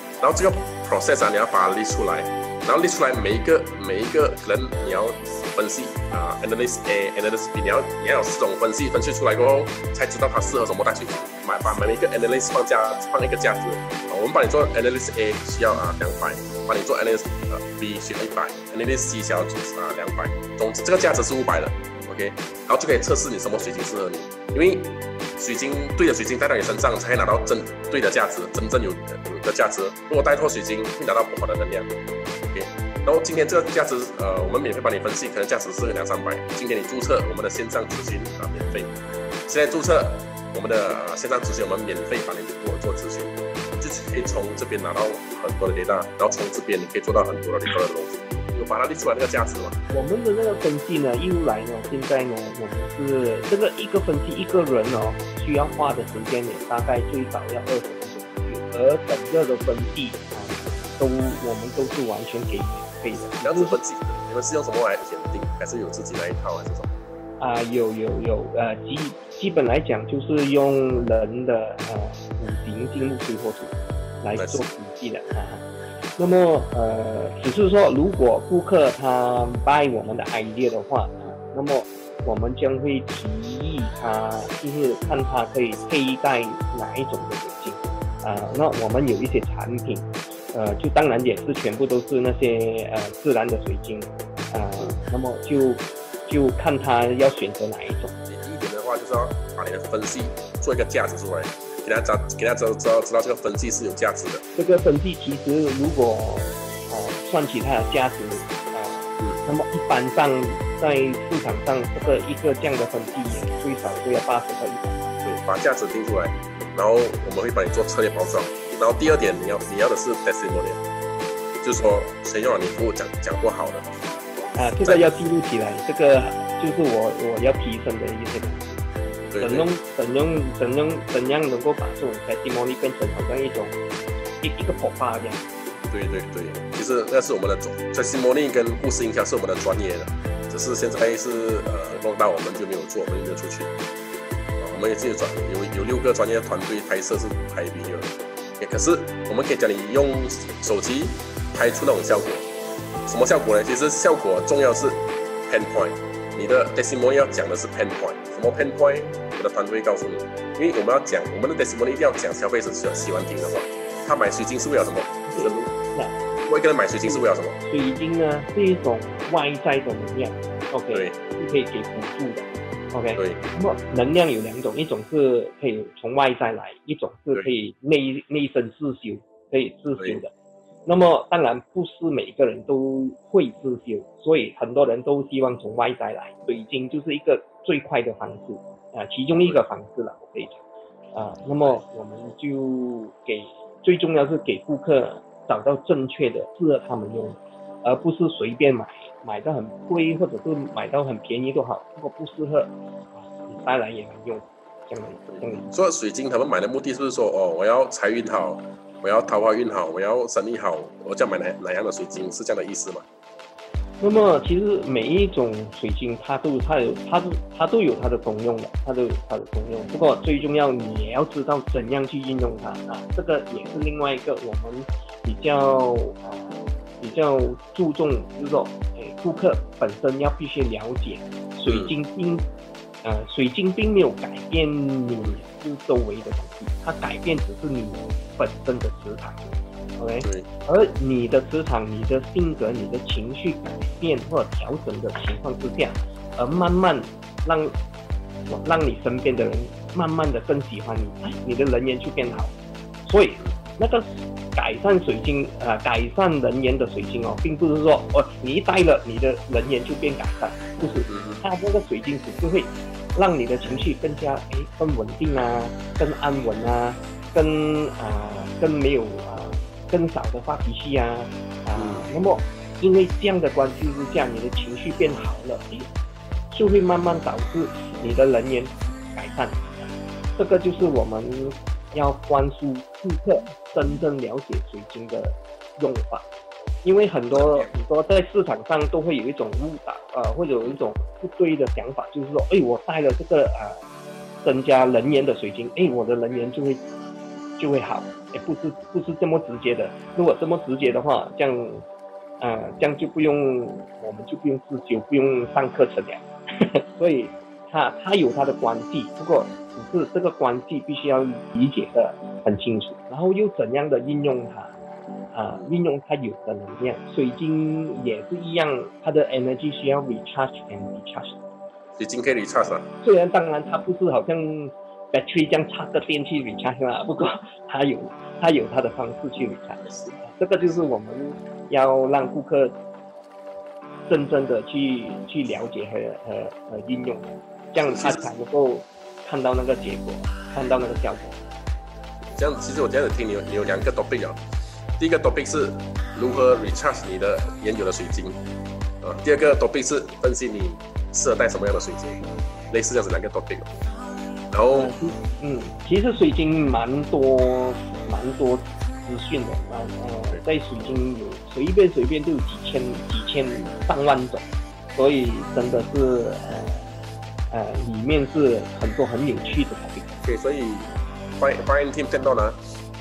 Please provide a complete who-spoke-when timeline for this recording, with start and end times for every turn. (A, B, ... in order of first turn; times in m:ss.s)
0:00.2-0:31.9 A
0:32.5-0:38.9 A
0:39.5-0:49.8 A
0:49.9-1:03.8 B
1:03.3-1:06.9 A
1:07.4-1:15.7 B
1:14.4-1:14.6 A
1:16.2-1:38.2 B
1:38.3-1:44.4 A
1:44.6-1:55.0 B
1:55.2-2:00.8 A
2:01.6-2:03.9 A
2:04.6-2:08.7 B
2:09.3-2:09.7 A
2:09.4-2:13.8 B
2:14.4-2:15.5 B
2:15.9-2:23.7 A
2:24.6-2:32.5 A
2:33.1-2:45.8 A
2:45.3-2:46.2 B
2:46.4-2:47.6 A
2:47.1-3:00.3 B
2:50.9-2:51.2 A
2:53.2-2:53.4 A
3:00.9-3:10.6 B
3:11.1-3:25.7 B
3:25.3-3:33.0 A
3:34.0-3:52.4 B
3:51.7-3:52.0 A
3:53.0-4:07.8 B
4:00.2-4:00.5 A
4:08.5-4:12.5 B
4:13.0-4:35.9 B
4:21.1-4:21.4 A
4:31.8-4:32.1 A
4:36.5-4:46.2 B
4:46.8-4:53.8 B
4:47.3-4:47.7 A
4:54.4-4:56.8 B
4:57.6-5:01.8 B
5:02.4-5:14.8 B
5:15.3-5:21.4 B
5:22.0-5:22.9 A
5:23.0-5:32.8 B
5:29.8-5:30.2 A
5:34.1-5:41.4 B
5:37.8-5:38.3 A
5:42.2-5:44.4 A
5:45.0-5:48.4 A
5:49.0-5:53.7 A
5:54.5-5:54.9 A
5:54.7-6:06.9 B
6:07.5-6:10.1 B
6:10.2-6:12.6 A